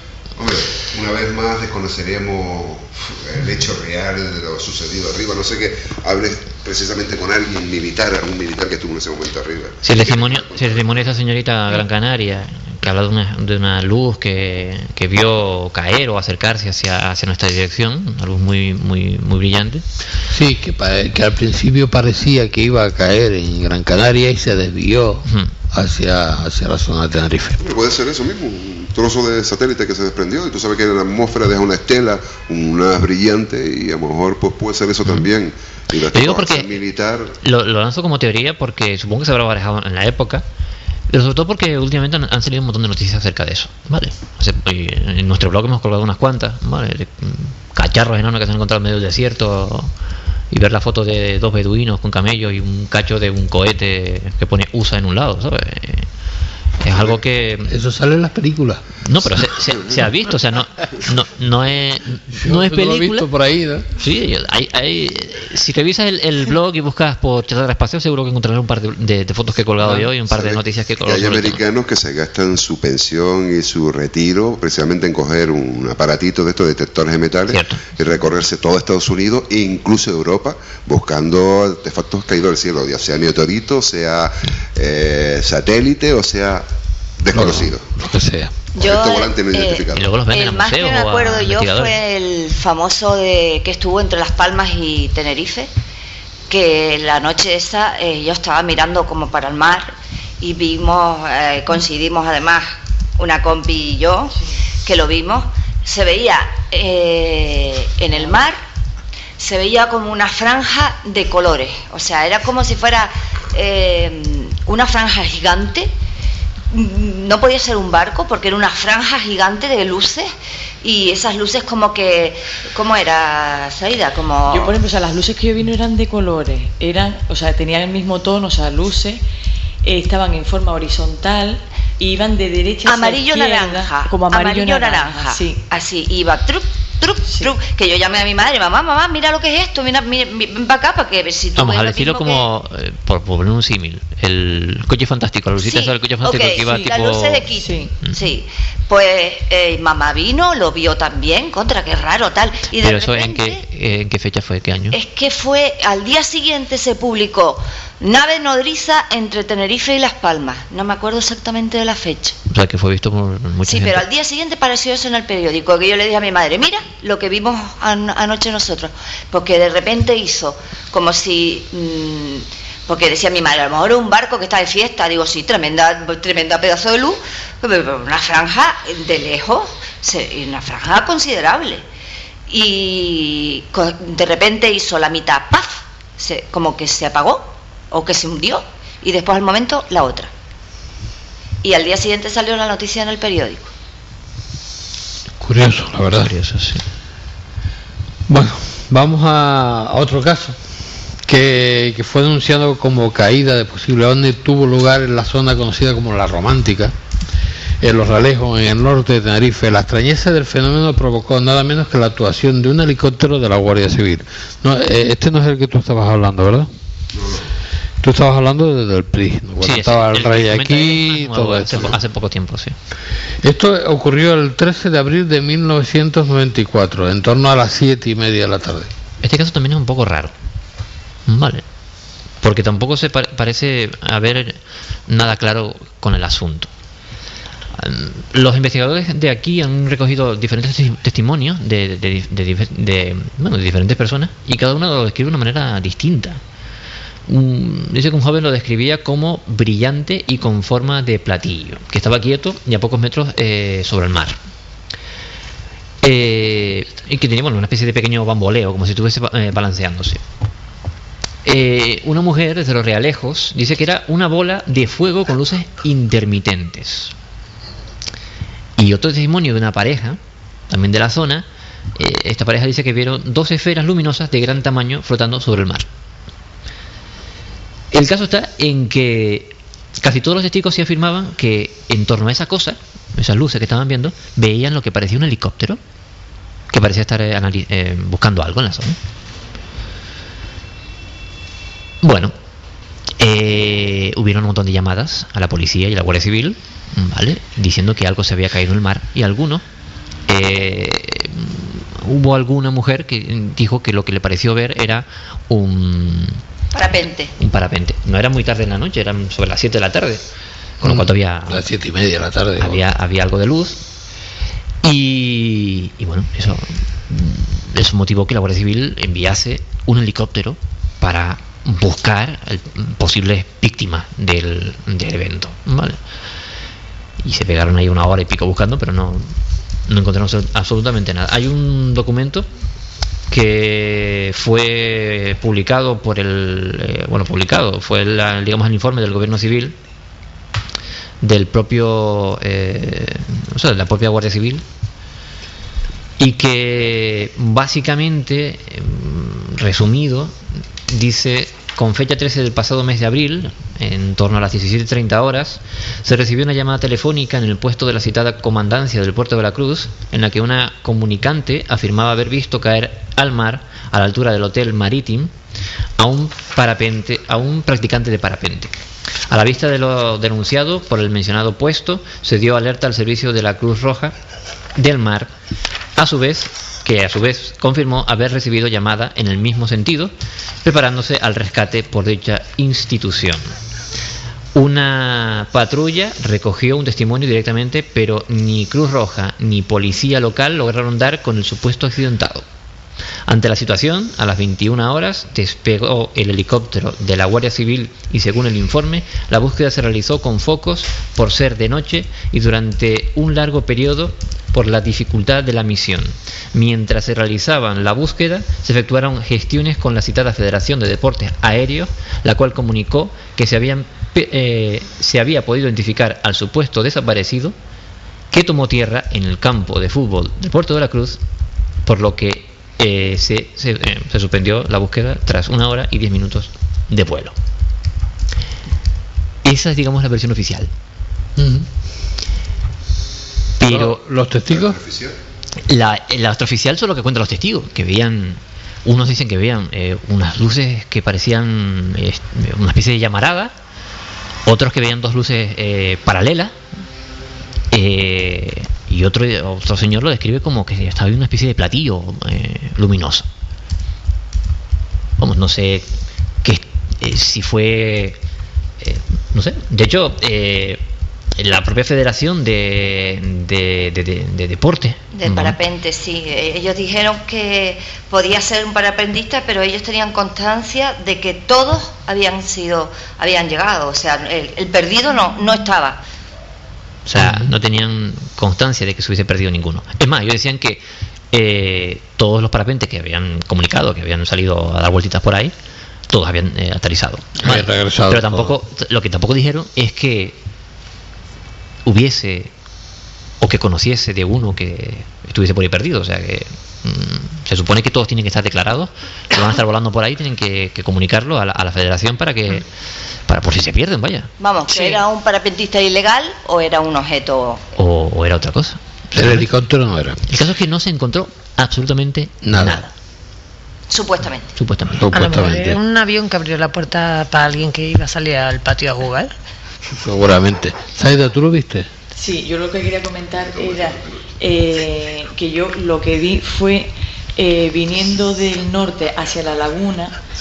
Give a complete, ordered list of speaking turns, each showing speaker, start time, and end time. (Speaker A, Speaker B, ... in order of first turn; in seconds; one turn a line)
Speaker A: 0.3-11.1
Speaker B: 9.8-19.9
Speaker C: 20.3-27.6
Speaker B: 25.3-25.5
Speaker A: 27.6-37.4
Speaker B: 36.1-36.7
Speaker B: 37.4-40.5
Speaker B: 41.1-49.9
Speaker B: 50.5-56.1
Speaker B: 56.8-57.7
Speaker C: 57.7-58.9
Speaker B: 59.0-63.3
Speaker C: 62.3-63.9
Speaker B: 64.0-71.6
Speaker A: 70.3-86.7
Speaker B: 77.5-77.8
Speaker A: 87.2-87.9
Speaker C: 87.3-88.5
Speaker D: 88.8-95.7
Speaker A: 88.8-90.1
Speaker B: 89.9-92.0
Speaker D: 96.5-108.6
Speaker D: 109.4-115.9
Speaker D: 116.7-120.3
Speaker D: 120.8-124.7
Speaker E: 124.5-129.2
Speaker E: 129.8-135.6
Speaker D: 132.8-142.4
Speaker E: 137.3-137.5
Speaker B: 141.6-147.5
Speaker D: 145.6-153.6
Speaker E: 146.6-146.9
Speaker E: 147.6-147.9
Speaker B: 152.8-155.0
Speaker D: 154.9-162.4
Speaker B: 162.5-164.1
Speaker D: 163.6-181.8
Speaker D: 182.5-190.3
Speaker D: 191.6-193.7
Speaker C: 195.4-196.4
Speaker B: 196.1-196.8
Speaker C: 198.3-200.6
Speaker C: 201.3-206.9
Speaker C: 207.8-216.7
Speaker A: 217.1-217.5
Speaker C: 218.0-222.0
Speaker B: 219.6-222.8
Speaker C: 223.4-228.9
Speaker B: 229.2-230.3
Speaker B: 231.3-231.6
Speaker B: 232.4-236.7
Speaker B: 237.8-246.4
Speaker B: 247.3-254.4
Speaker B: 256.0-260.2
Speaker B: 261.4-267.1
Speaker B: 268.8-270.2
Speaker B: 270.7-275.9
Speaker B: 277.9-285.8
Speaker B: 286.7-289.0
Speaker B: 292.0-292.3
Speaker B: 293.2-299.6
Speaker B: 300.3-306.4
Speaker D: 306.7-307.3
Speaker B: 307.4-310.2
Speaker B: 310.8-311.6
Speaker C: 310.8-312.8
Speaker B: 312.6-313.8
Speaker B: 314.8-326.0
Speaker B: 327.2-329.3
Speaker B: 329.9-332.5
Speaker B: 333.3-339.8
Speaker B: 341.2-344.6
Speaker B: 346.2-350.4
Speaker B: 350.9-365.3
Speaker B: 366.0-368.7
Speaker B: 369.3-374.1
Speaker B: 374.8-375.3
Speaker B: 376.0-380.1
Speaker B: 380.6-383.4
Speaker B: 384.6-392.5
Speaker B: 393.3-417.6
Speaker B: 418.3-421.2
Speaker B: 421.9-427.4
Speaker B: 429.4-430.7
Speaker C: 431.4-431.7
Speaker B: 433.6-434.0
Speaker C: 433.6-434.8
Speaker A: 434.5-435.2
Speaker B: 435.7-443.6
Speaker B: 444.5-446.6
Speaker B: 447.7-453.3
Speaker B: 455.2-455.9
Speaker B: 456.4-458.2
Speaker B: 458.8-460.8
Speaker B: 461.4-465.6
Speaker D: 465.1-476.0
Speaker B: 477.1-485.5
Speaker C: 477.2-477.5
Speaker B: 486.1-490.4
Speaker C: 487.4-488.6
Speaker B: 491.9-492.5
Speaker B: 493.4-502.6
Speaker B: 503.3-505.0
Speaker D: 504.4-507.6
Speaker B: 507.8-509.5
Speaker C: 509.1-510.2
Speaker B: 510.3-512.9
Speaker C: 512.4-512.8
Speaker D: 513.9-514.5
Speaker B: 514.6-515.5
Speaker C: 515.0-515.8
Speaker F: 515.1-519.3
Speaker C: 519.9-521.9
Speaker E: 522.1-530.2
Speaker A: 523.5-524.3